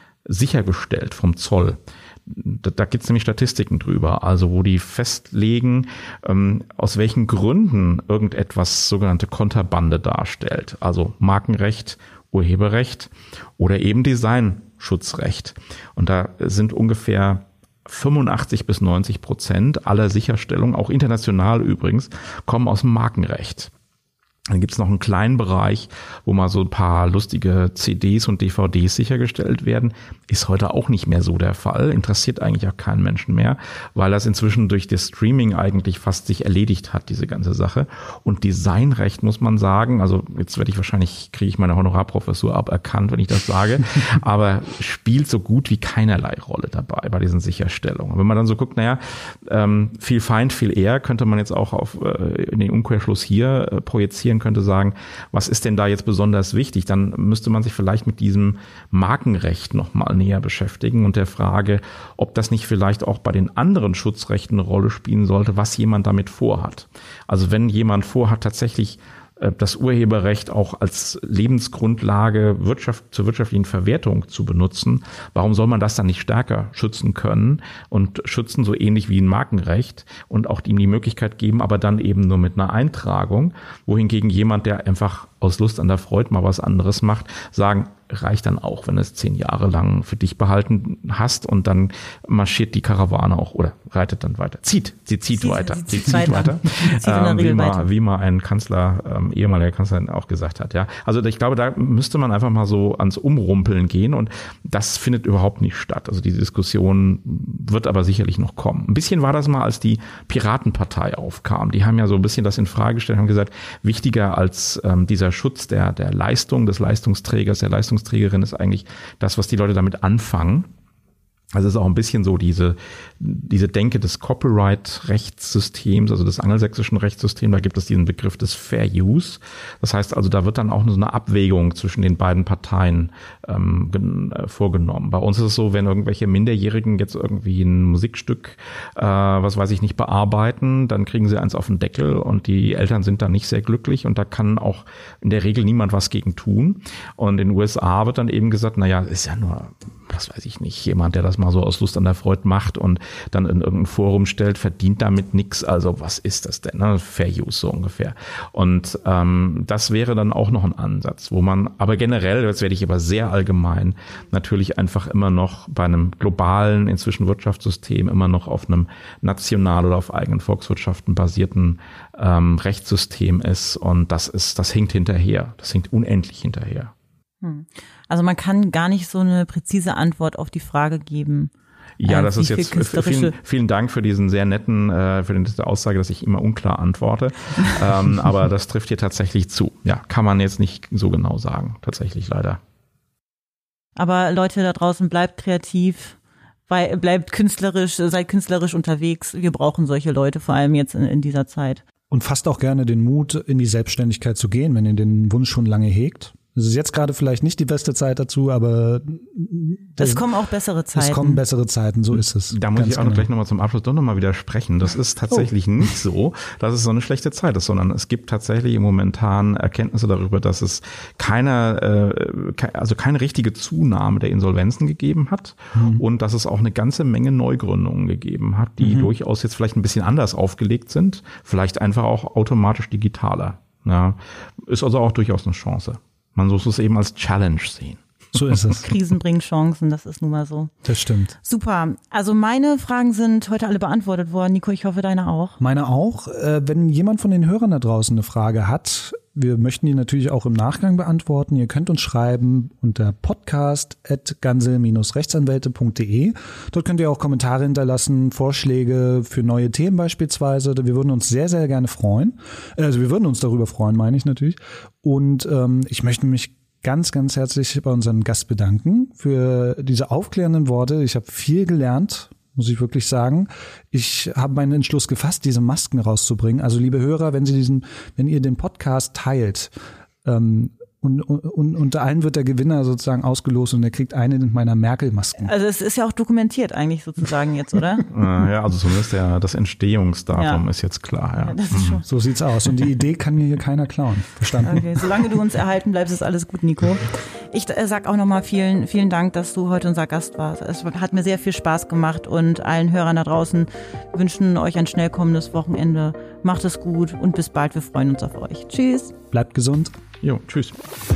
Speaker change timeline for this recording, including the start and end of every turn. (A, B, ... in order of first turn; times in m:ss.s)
0:00.3-0:23.7 A
0:24.5-2:00.7 A
1:35.4-1:37.9 B
2:01.5-2:56.9 A
2:57.4-3:01.5 B
3:02.0-3:12.6 A
3:02.0-3:03.4 B
3:14.0-3:21.8 B
3:22.1-3:30.3 C
3:30.0-3:31.4 B
3:31.0-3:33.3 C
3:32.5-3:58.8 A
3:45.8-3:46.0 C
3:48.8-3:49.1 C
3:58.3-3:58.9 C
3:58.7-4:00.7 B
4:00.8-4:01.4 C
4:01.4-4:05.6 B
4:05.6-4:39.7 C
4:40.2-4:45.5 C
4:45.4-4:48.1 B
4:48.1-4:52.0 A
4:50.4-4:50.6 B
4:51.4-4:52.0 B
4:52.1-4:54.9 C
4:54.6-5:09.1 B
5:09.3-5:10.0 C
5:10.2-5:10.8 A